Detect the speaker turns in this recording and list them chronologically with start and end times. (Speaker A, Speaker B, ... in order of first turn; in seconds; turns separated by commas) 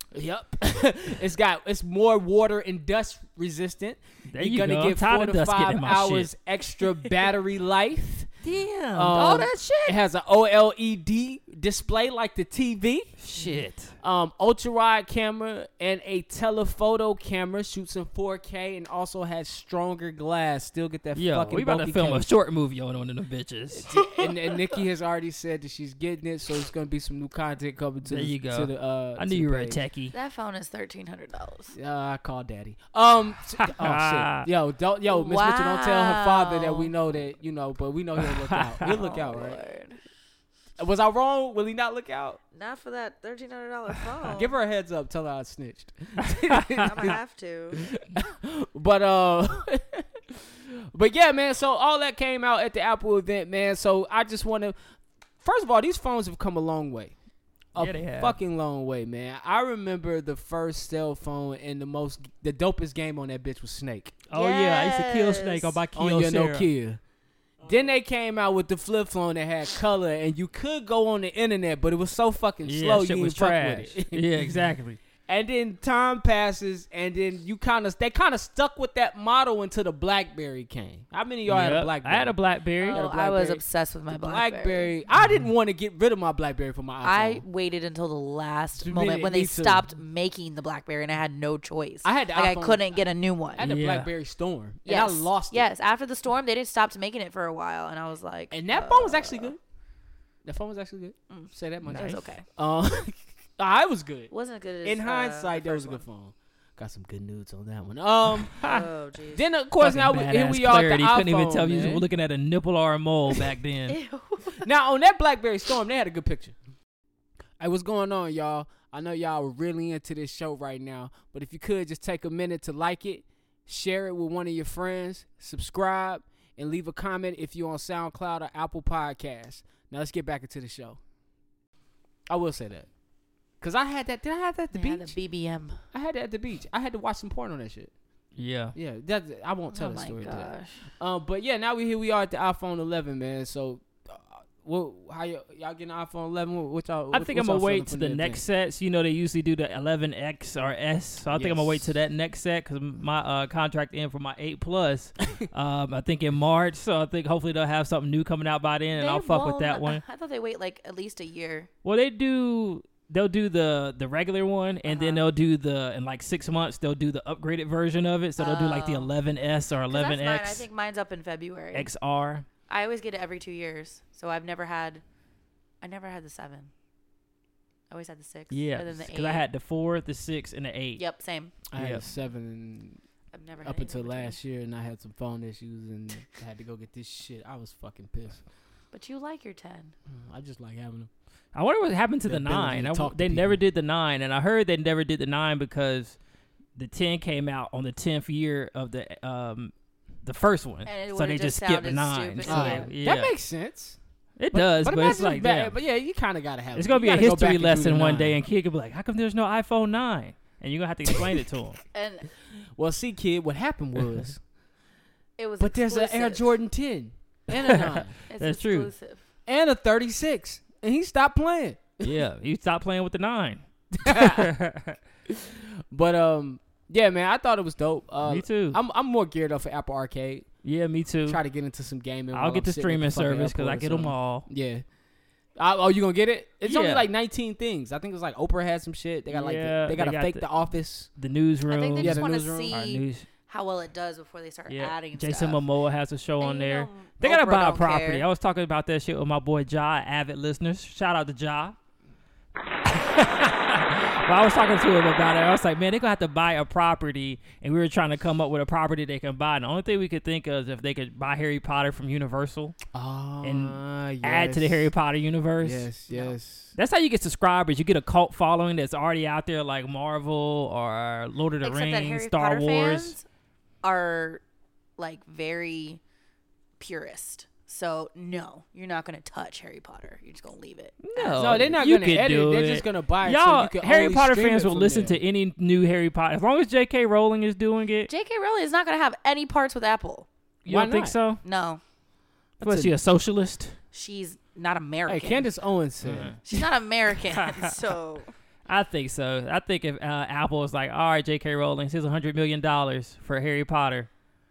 Speaker A: 0.1-8.3, Speaker B: 4.3-6.3, Speaker B: 8.4-10.0, Speaker A: 8.9-13.2, Speaker B: 13.2-13.9, Speaker A: 14.0-22.3, Speaker B: 21.1-23.9, Speaker A: 23.7-29.8, Speaker C: 23.9-24.8, Speaker B: 28.1-30.1, Speaker C: 30.1-31.7, Speaker A: 31.7-39.6, Speaker B: 33.6-34.5, Speaker C: 35.1-36.9, Speaker B: 38.2-38.8, Speaker C: 38.9-40.0, Speaker A: 40.8-42.4, Speaker C: 42.5-44.5, Speaker A: 44.3-47.2, Speaker B: 46.5-47.1, Speaker C: 46.8-47.8, Speaker A: 47.8-54.8, Speaker A: 55.4-57.1, Speaker A: 57.7-64.2, Speaker B: 57.8-58.4, Speaker B: 64.3-66.7, Speaker C: 64.3-65.8, Speaker A: 66.0-67.0, Speaker A: 67.6-74.5, Speaker B: 72.6-75.0, Speaker A: 75.3-82.4, Speaker B: 81.5-83.1, Speaker C: 82.8-84.9, Speaker A: 82.9-87.4, Speaker C: 87.0-93.6, Speaker A: 88.8-89.9, Speaker A: 92.0-93.0, Speaker A: 93.6-95.6, Speaker B: 93.6-94.1, Speaker C: 94.9-99.5, Speaker A: 98.5-99.6, Speaker A: 100.5-104.3, Speaker C: 101.3-102.5, Speaker B: 101.9-102.2, Speaker C: 104.3-106.0, Speaker A: 104.8-108.6, Speaker B: 108.4-108.9, Speaker C: 108.6-109.5, Speaker A: 109.3-112.0, Speaker B: 109.8-114.0, Speaker C: 113.9-114.7, Speaker A: 114.6-116.5, Speaker A: 117.6-131.0, Speaker A: 132.3-132.9, Speaker A: 133.6-135.2, Speaker C: 134.7-135.8, Speaker A: 135.9-137.9, Speaker B: 138.4-138.8, Speaker A: 138.8-148.4, Speaker C: 139.7-140.8, Speaker B: 147.1-160.0, Speaker A: 151.3-151.9, Speaker C: 158.9-161.7, Speaker B: 161.8-170.7, Speaker C: 164.9-165.2, Speaker C: 168.4-169.1, Speaker C: 169.9-171.9, Speaker B: 171.7-172.5, Speaker C: 172.7-175.0, Speaker C: 175.8-176.7, Speaker C: 177.9-179.4, Speaker B: 178.5-181.0, Speaker C: 181.0-181.5, Speaker A: 181.7-183.0, Speaker B: 181.8-182.1, Speaker C: 183.3-184.4, Speaker A: 183.6-188.4, Speaker C: 188.9-189.9, Speaker A: 190.1-191.1, Speaker B: 191.5-196.2, Speaker A: 192.2-193.6, Speaker B: 196.8-203.3, Speaker C: 200.9-202.9, Speaker A: 202.5-204.0, Speaker B: 204.4-205.8, Speaker A: 204.5-208.4, Speaker B: 206.7-211.8, Speaker C: 211.9-212.3, Speaker A: 212.8-214.4, Speaker C: 215.4-216.5, Speaker A: 215.6-218.2, Speaker B: 217.7-218.9, Speaker C: 218.3-219.2, Speaker A: 219.5-222.2, Speaker B: 222.0-225.0, Speaker A: 223.9-224.5, Speaker A: 225.4-230.5, Speaker B: 228.2-228.8, Speaker B: 230.6-231.4, Speaker A: 231.3-234.8, Speaker B: 232.3-234.5, Speaker A: 235.6-241.1, Speaker B: 236.6-237.1, Speaker B: 239.3-240.5, Speaker B: 241.2-243.3, Speaker C: 241.7-245.6, Speaker A: 242.0-242.7, Speaker B: 244.7-251.8, Speaker C: 246.4-248.2, Speaker B: 252.9-262.8, Speaker A: 262.9-264.9, Speaker B: 263.4-265.9, Speaker A: 265.6-266.8, Speaker C: 266.1-266.4, Speaker B: 266.8-273.2, Speaker C: 271.6-273.2, Speaker C: 273.8-274.4, Speaker C: 275.0-276.0, Speaker C: 276.8-281.7, Speaker B: 281.0-288.1, Speaker A: 281.4-285.2, Speaker C: 288.1-290.3, Speaker B: 290.6-291.4, Speaker A: 290.7-291.2, Speaker C: 291.4-291.8, Speaker A: 292.6-292.9, Speaker B: 292.6-293.8, Speaker C: 293.9-295.5, Speaker A: 295.1-296.4, Speaker B: 296.0-296.4, Speaker C: 296.5-298.3, Speaker B: 297.4-297.8, Speaker B: 298.7-304.1